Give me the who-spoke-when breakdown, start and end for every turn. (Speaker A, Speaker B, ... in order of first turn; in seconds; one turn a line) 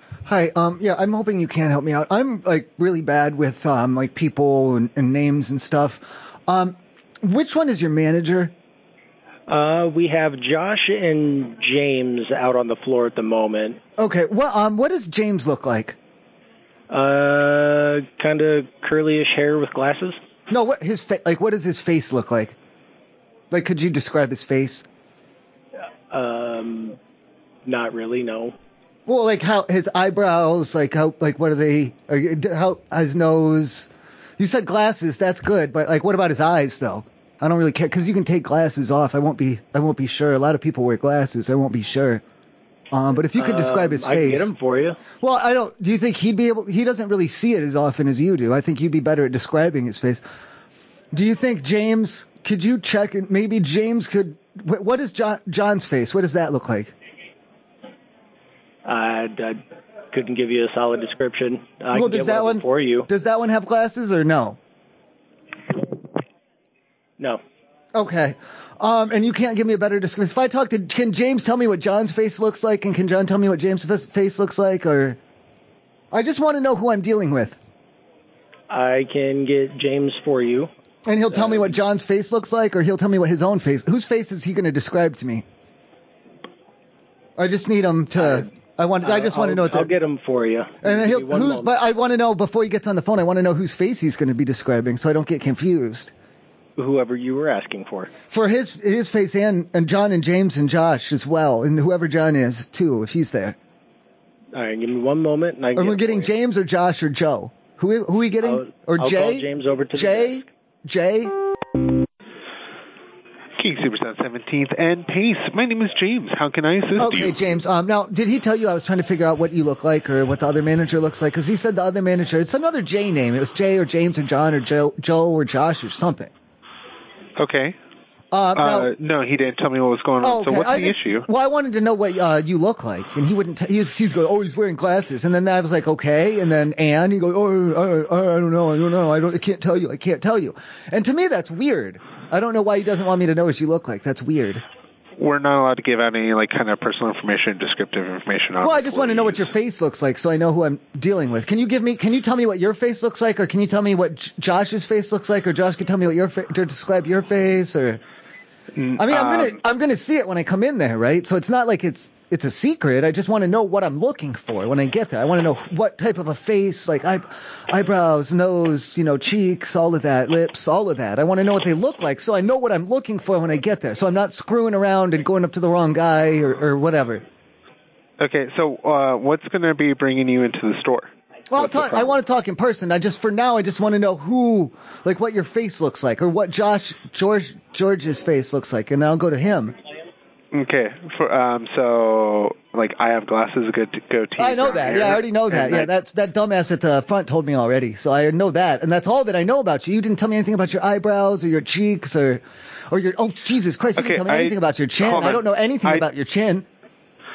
Speaker A: 0.3-8.5
Speaker B: 9.5-13.8
Speaker A: 14.0-15.9
Speaker B: 16.9-20.2
Speaker A: 20.5-22.5
Speaker A: 23.5-24.8
Speaker B: 26.1-27.0
Speaker B: 27.6-28.5
Speaker A: 29.1-42.2
Speaker A: 42.9-44.5
Speaker B: 43.4-45.0
Speaker A: 45.2-50.2
Speaker A: 51.1-56.9
Speaker B: 58.9-59.6
Speaker B: 60.1-63.1
Speaker A: 61.9-64.6
Speaker A: 67.9-75.2
Speaker A: 76.1-77.6
Speaker B: 78.7-80.7
Speaker A: 81.0-85.4
Speaker B: 81.3-81.8
Speaker A: 87.4-89.9
Speaker B: 88.2-88.5
Speaker B: 89.0-91.7
Speaker A: 90.8-96.1
Speaker B: 96.8-98.1
Speaker A: 98.3-103.6
Speaker B: 104.5-106.3
Speaker A: 105.8-111.3
Speaker B: 108.4-110.4
Speaker C: 113.6-117.4
Speaker A: 117.0-126.3
Speaker C: 127.4-127.8
Speaker A: 128.3-128.9
Speaker C: 128.6-131.2
Speaker A: 130.2-144.6
Speaker C: 145.2-149.5
Speaker A: 148.6-158.0
Speaker C: 158.7-159.6
Speaker A: 159.0-177.2
Speaker C: 178.2-182.2
Speaker A: 181.5-189.7
Speaker C: 190.5-195.9
Speaker A: 194.4-206.7
Speaker C: 204.0-206.1